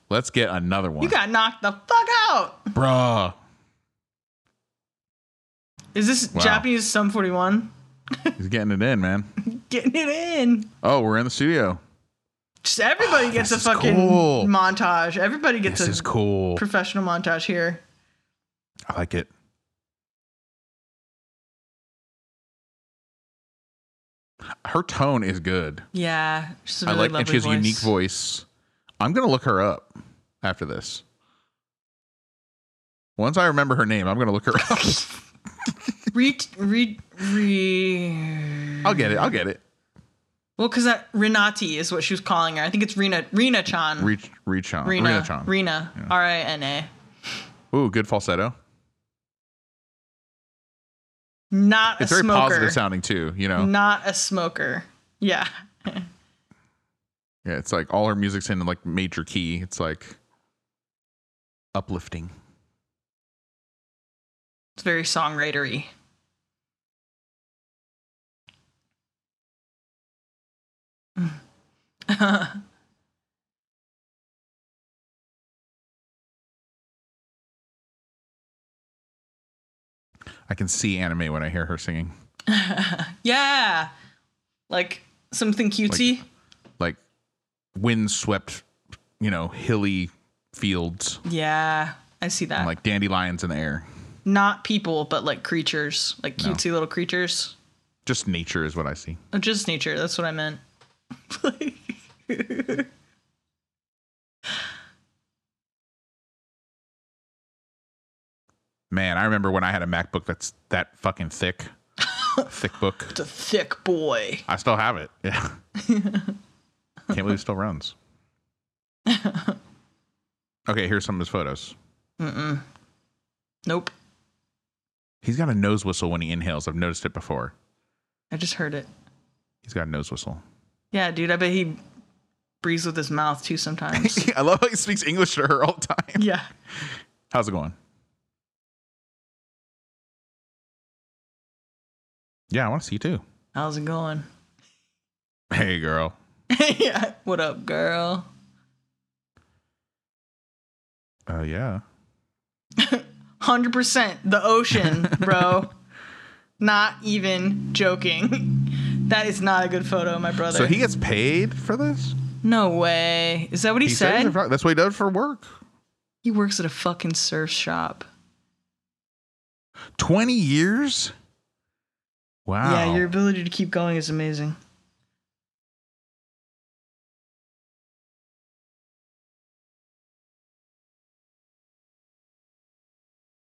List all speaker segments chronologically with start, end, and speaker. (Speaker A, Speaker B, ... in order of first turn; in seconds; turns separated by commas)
Speaker A: 0.1-1.1, Speaker B: 1.0-2.7, Speaker A: 2.7-3.4, Speaker B: 5.9-8.3, Speaker A: 6.3-6.7, Speaker A: 8.4-9.3, Speaker B: 9.4-10.7, Speaker A: 10.8-11.8, Speaker B: 12.6-17.8, Speaker A: 13.0-14.5, Speaker A: 15.7-16.6, Speaker A: 18.9-19.3, Speaker A: 24.6-25.9, Speaker B: 25.9-27.9, Speaker A: 26.8-28.4, Speaker A: 29.0-31.0, Speaker A: 33.2-35.0, Speaker B: 34.6-35.1, Speaker B: 36.1-39.3, Speaker A: 38.8-39.6, Speaker B: 40.6-44.1, Speaker A: 44.0-46.1, Speaker B: 44.8-46.9, Speaker A: 47.7-48.5, Speaker B: 51.5-52.8, Speaker A: 52.0-53.7, Speaker B: 53.5-56.1, Speaker A: 57.4-60.2, Speaker A: 61.7-62.3, Speaker B: 64.8-65.9, Speaker B: 72.1-72.6, Speaker A: 80.5-82.1, Speaker B: 82.5-83.9, Speaker B: 84.7-86.2, Speaker A: 87.8-88.6, Speaker A: 89.2-91.2, Speaker B: 91.2-92.7, Speaker A: 92.6-93.8, Speaker B: 94.2-97.5, Speaker A: 98.0-99.2, Speaker B: 99.3-100.6, Speaker B: 101.3-102.9, Speaker A: 108.9-111.7, Speaker B: 112.0-112.5, Speaker A: 112.5-113.2, Speaker B: 113.1-114.4, Speaker A: 114.5-115.6, Speaker B: 115.8-116.4, Speaker A: 117.1-117.9, Speaker B: 119.1-119.6, Speaker A: 120.7-121.8, Speaker B: 122.2-122.6, Speaker B: 123.7-123.9, Speaker A: 125.2-127.5, Speaker B: 128.3-128.9, Speaker A: 129.6-130.4, Speaker B: 130.9-131.8, Speaker B: 132.6-134.3, Speaker A: 133.9-136.2, Speaker B: 136.2-136.5, Speaker A: 137.3-137.8, Speaker A: 142.5-143.2, Speaker B: 143.5-144.3, Speaker A: 145.5-146.1, Speaker B: 146.5-148.3, Speaker A: 151.3-151.8, Speaker B: 152.8-155.7, Speaker A: 154.8-155.6, Speaker B: 156.6-160.8, Speaker A: 160.5-162.2, Speaker B: 162.4-164.3, Speaker A: 163.8-165.5, Speaker B: 166.2-168.1, Speaker A: 170.0-171.1, Speaker A: 172.4-173.1, Speaker B: 172.6-174.6